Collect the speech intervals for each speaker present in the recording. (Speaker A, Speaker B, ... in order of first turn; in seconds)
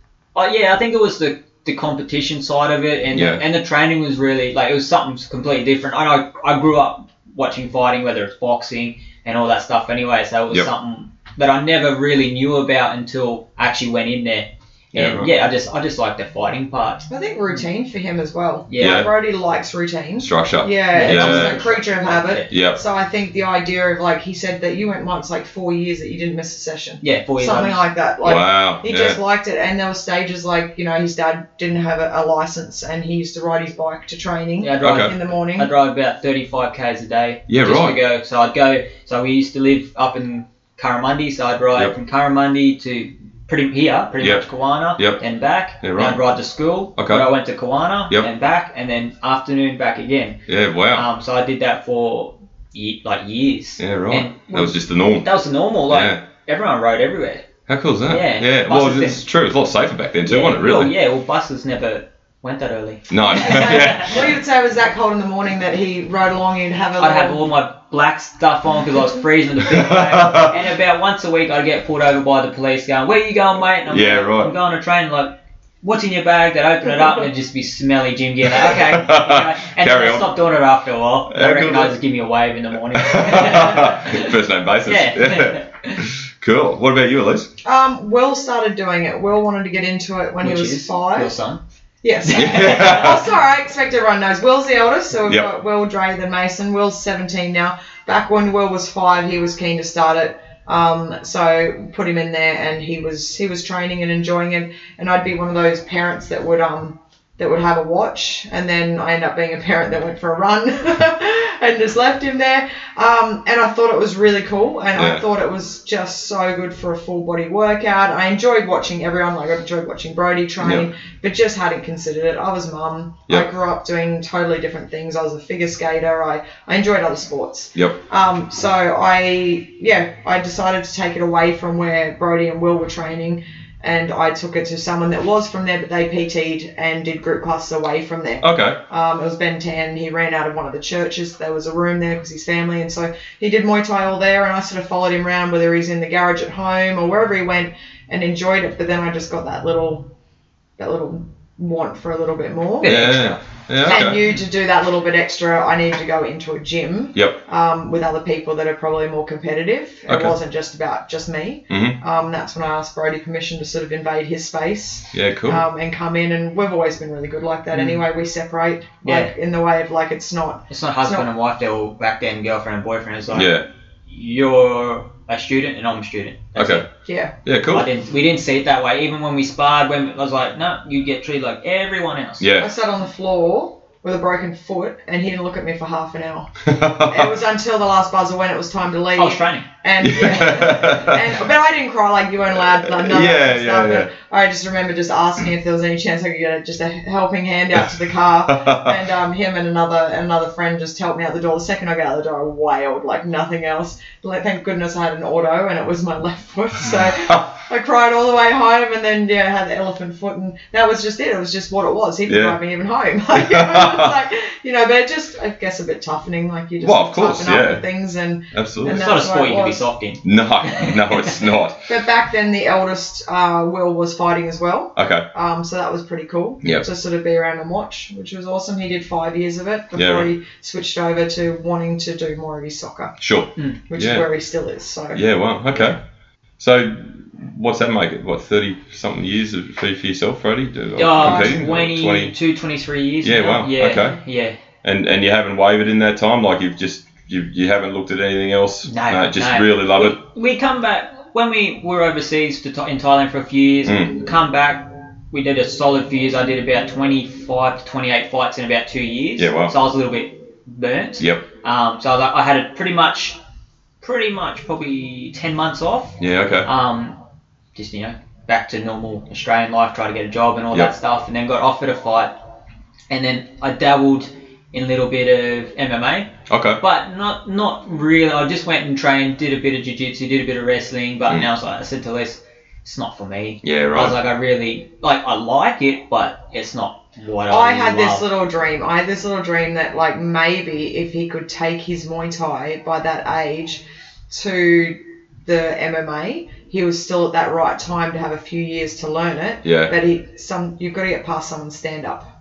Speaker A: 0.3-17.6, 18.7-19.1, 20.9-22.5, 27.0-27.8, 34.6-57.5, 58.1-59.2, 60.3-64.1, 67.0-86.1, 90.4-91.6, 92.2-93.2, 152.8-153.4, 153.9-154.4, 167.7-168.0, 169.0-169.3, 170.7-173.5, 174.1-176.9, 177.7-182.5, 189.2-189.7, 206.8-207.1, 218.9-221.4, 241.0-244.6, 248.9-263.4, 264.0-267.2, 267.8-272.4, 273.1-288.3
Speaker B: 3.1-3.4, 14.9-15.3, 18.8-19.1, 20.2-21.6, 22.5-22.8, 28.2-29.2, 34.8-35.1, 37.5-38.0, 44.2-45.2, 45.8-46.2, 47.0-47.3, 50.5-51.1, 53.8-55.3, 55.9-56.2, 57.7-60.9, 63.1-64.3, 69.6-70.6, 73.9-74.5, 78.5-80.3, 81.3-82.0, 83.0-87.5, 92.3-93.3, 115.0-115.2, 120.6-120.9, 138.4-138.8, 152.8-154.2, 160.1-160.4, 161.7-162.0, 165.1-165.6, 173.3-173.7, 176.6-176.8, 177.4-177.9, 182.4-182.7, 186.7-187.4, 190.0-191.4, 192.8-194.1, 198.5-199.0, 206.9-207.5, 212.3-212.6, 213.3-214.2, 216.8-217.8, 218.5-219.1, 220.2-221.8, 225.0-225.3, 229.9-230.3, 233.2-234.3, 235.1-236.0, 236.6-242.3, 243.2-244.2, 244.8-250.2, 253.8-254.2, 259.4-259.7, 261.2-261.4, 266.2-266.7, 276.5-276.8, 283.6-284.2, 299.6-299.9
Speaker C: 17.1-35.7, 63.4-67.4, 87.6-91.3, 92.0-150.1, 150.8-153.0, 153.8-171.3, 177.1-177.4, 182.6-219.9, 221.9-233.2, 233.9-235.2, 241.1-241.6, 287.5-302.3